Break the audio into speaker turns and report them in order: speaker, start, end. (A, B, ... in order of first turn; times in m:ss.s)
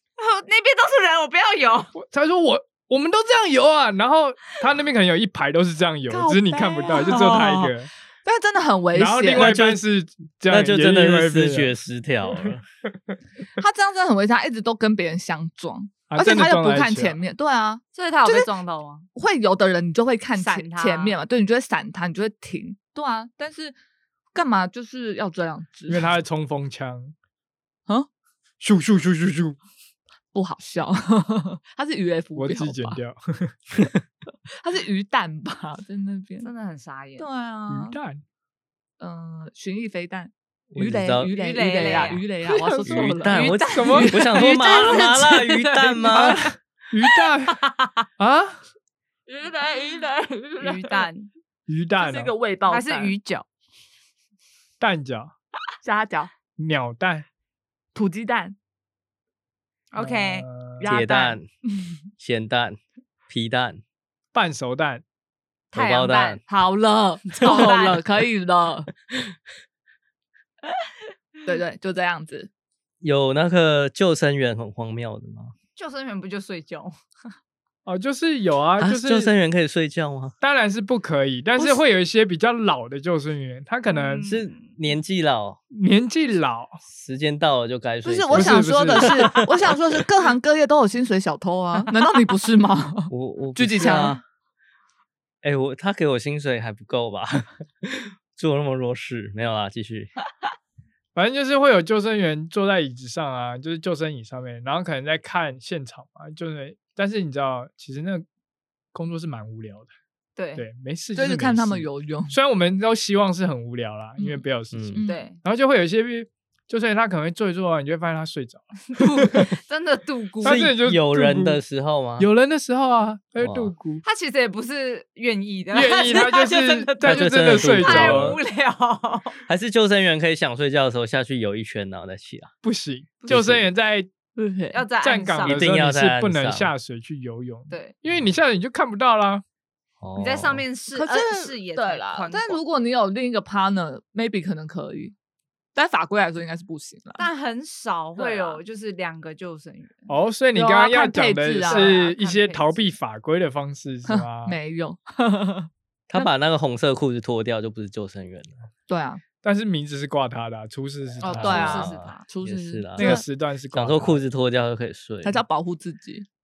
0:00.2-0:01.9 A
0:02.0-0:07.9 B
0:06.1-0:07.7 C
0:07.0-0:07.3 A
0:08.2-0:09.6 C
0:08.9-0:11.7 B
0:09.3-0:09.8 D
0:10.5-0:12.6 D
0:13.6-0:18.5 C
0:16.1-0:17.2 B
0:17.9-0:19.1 A
0:19.2-0:23.8 C
0:20.4-0:21.2 A
0:24.3-0:26.1 C
0:25.9-0:27.1 B
0:28.6-0:29.6 B
0:30.3-0:33.0 C
0:32.4-0:33.6 B
0:34.6-0:36.5 C
0:36.4-0:37.3 A
0:37.2-0:38.0 C
0:37.7-0:38.2 B
0:39.0-0:44.5 C
0:40.7-0:41.3 D
0:41.3-0:42.2 A
0:42.4-0:43.1 B
0:42.9-0:46.4 D
0:43.3-0:46.4 A
0:43.7-0:44.1 B
0:46.1-0:47.6 B
0:47.4-0:48.0 A
0:48.2-0:48.6 B
0:49.3-0:51.1 C
0:50.6-0:51.3 A
0:51.7-0:52.3 B
0:52.0-0:53.2 C
0:52.7-0:53.5 A
0:54.8-0:55.3 B
0:55.8-0:56.3 C
0:56.6-0:57.2 B
0:57.9-0:58.6 C
0:59.9-1:00.5 A
1:00.0-1:00.9 B
1:00.8-1:01.9 C
1:00.8-1:01.5 D
1:02.2-1:03.8 D
1:04.3-1:05.0 B
1:05.7-1:06.4 A
1:05.7-1:06.4 D
1:06.5-1:08.9 C
1:07.4-1:08.0 A
1:11.4-1:12.5 C
1:13.0-1:15.5 D
1:15.8-1:17.0 A
1:17.8-1:19.3 B
1:18.8-1:20.4 D
1:20.4-1:24.3 B
1:23.9-1:24.6 A
1:24.3-1:25.6 D
1:25.7-1:26.8 B
1:26.9-1:29.5 D
1:28.0-1:34.2 C
1:28.3-1:29.4 B
1:33.1-1:34.2 D
1:35.4-1:40.1 D
1:41.2-1:48.2 B
1:48.9-1:49.9 B
1:50.4-1:50.7 A
1:50.6-1:59.5 B
1:51.2-1:52.4 C
1:54.2-1:55.2 C
1:54.7-1:55.0 D
1:55.1-1:55.4 A
1:58.9-2:00.6 A
2:00.4-2:01.6 B
2:00.4-2:02.3 D
2:02.2-2:04.0 B
2:03.4-2:03.7 D
2:04.0-2:09.4 A
2:05.7-2:08.4 B
2:07.0-2:08.4 D
2:09.5-2:12.5 D
2:12.6-2:14.1 B
2:13.3-2:13.7 D
2:14.4-2:14.8 C
2:14.7-2:15.6 A
2:15.0-2:19.4 B
2:15.4-2:16.7 D
2:20.0-2:20.6 D
2:20.2-2:22.6 A
2:20.9-2:25.1 C
2:25.8-2:27.3 C
2:27.2-2:30.1 A
2:28.2-2:28.6 C
2:30.1-2:34.6 B
2:30.6-2:32.0 C
2:31.6-2:32.9 A
2:34.1-2:36.2 C
2:36.1-2:38.6 D
2:38.9-2:39.2 C
2:39.4-2:41.9 B
2:41.2-2:43.2 C
2:41.3-2:42.2 A
2:41.3-2:45.4 D
2:43.0-2:44.2 B
2:45.2-2:46.3 C